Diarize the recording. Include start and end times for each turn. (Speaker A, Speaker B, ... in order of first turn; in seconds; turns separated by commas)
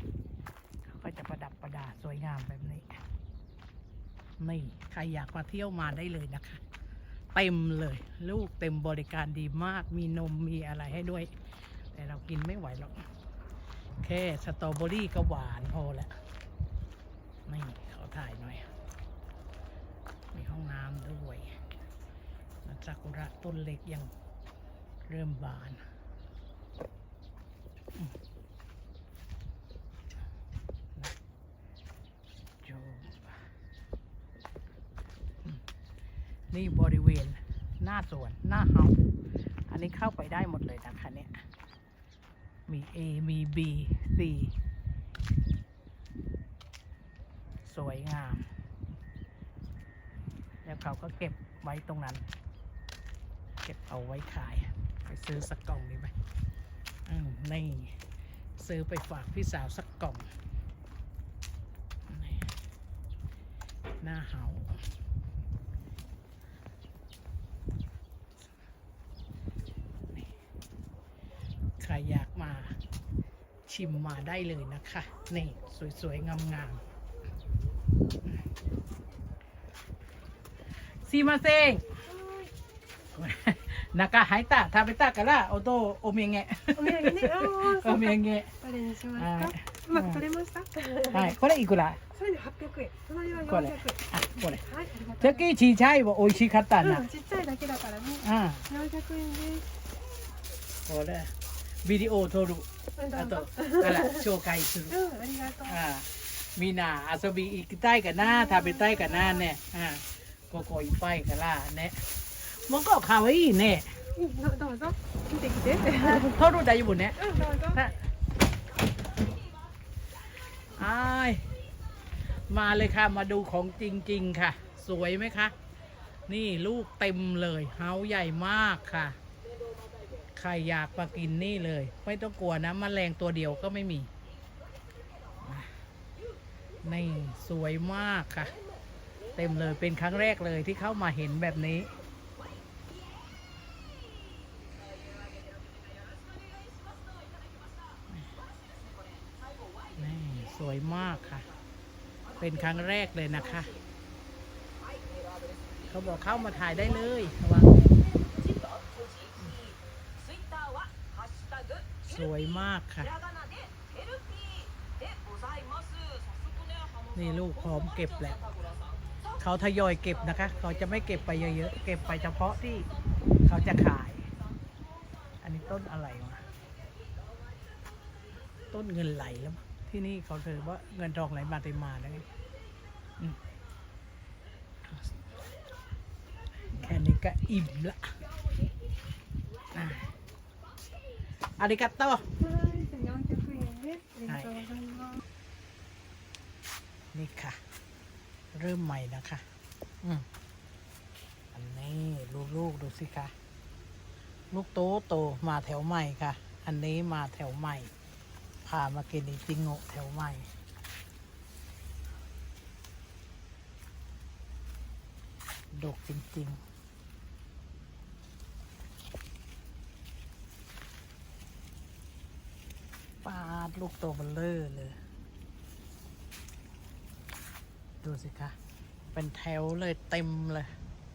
Speaker A: 0.8-3.0, Speaker A: 4.4-6.6, Speaker A: 7.3-11.3, Speaker A: 11.9-13.0, Speaker A: 14.0-16.1, Speaker A: 17.5-18.7, Speaker A: 20.3-21.6, Speaker A: 22.6-24.1, Speaker A: 25.1-25.8, Speaker A: 32.6-33.4, Speaker A: 36.5-39.0, Speaker A: 39.7-41.4, Speaker A: 42.7-44.5, Speaker A: 47.6-48.5, Speaker A: 50.6-52.2, Speaker A: 53.6-56.1, Speaker A: 57.0-58.0, Speaker A: 58.6-60.3, Speaker A: 62.1-62.5, Speaker A: 64.0-64.9, Speaker A: 71.8-72.8, Speaker A: 73.7-76.8, Speaker A: 81.0-81.9, Speaker B: 82.0-82.5, Speaker A: 83.1-88.5, Speaker B: 86.7-91.3, Speaker A: 89.1-90.2, Speaker A: 91.0-92.0, Speaker B: 92.1-94.0, Speaker A: 93.5-94.7, Speaker B: 94.6-95.4, Speaker A: 95.2-97.1, Speaker B: 96.8-99.7, Speaker A: 98.2-98.7, Speaker A: 100.8-105.0, Speaker B: 103.0-104.2, Speaker B: 104.9-105.8, Speaker A: 105.6-114.0, Speaker B: 108.2-109.4, Speaker B: 114.1-116.4, Speaker A: 115.9-118.0, Speaker B: 117.2-117.8, Speaker A: 120.6-121.5, Speaker A: 122.4-125.5, Speaker A: 126.3-129.2, Speaker A: 130.3-134.1, Speaker A: 135.4-135.8, Speaker A: 136.8-138.6, Speaker A: 139.3-141.9, Speaker A: 149.9-151.5, Speaker A: 152.4-153.8, Speaker A: 155.9-157.9, Speaker A: 162.0-163.2, Speaker A: 167.1-168.5, Speaker A: 169.3-172.9, Speaker A: 173.4-174.3, Speaker A: 175.4-176.4, Speaker A: 178.7-182.3, Speaker A: 184.8-185.2, Speaker A: 186.7-188.2, Speaker A: 189.7-190.2, Speaker A: 191.6-192.3, Speaker B: 192.4-195.2, Speaker A: 194.3-194.7, Speaker A: 197.1-197.6, Speaker A: 198.5-199.4, Speaker A: 201.5-203.3, Speaker A: 204.5-207.9, Speaker A: 208.6-210.5, Speaker A: 215.7-216.6, Speaker A: 223.2-225.0, Speaker A: 228.0-228.6, Speaker A: 229.1-230.7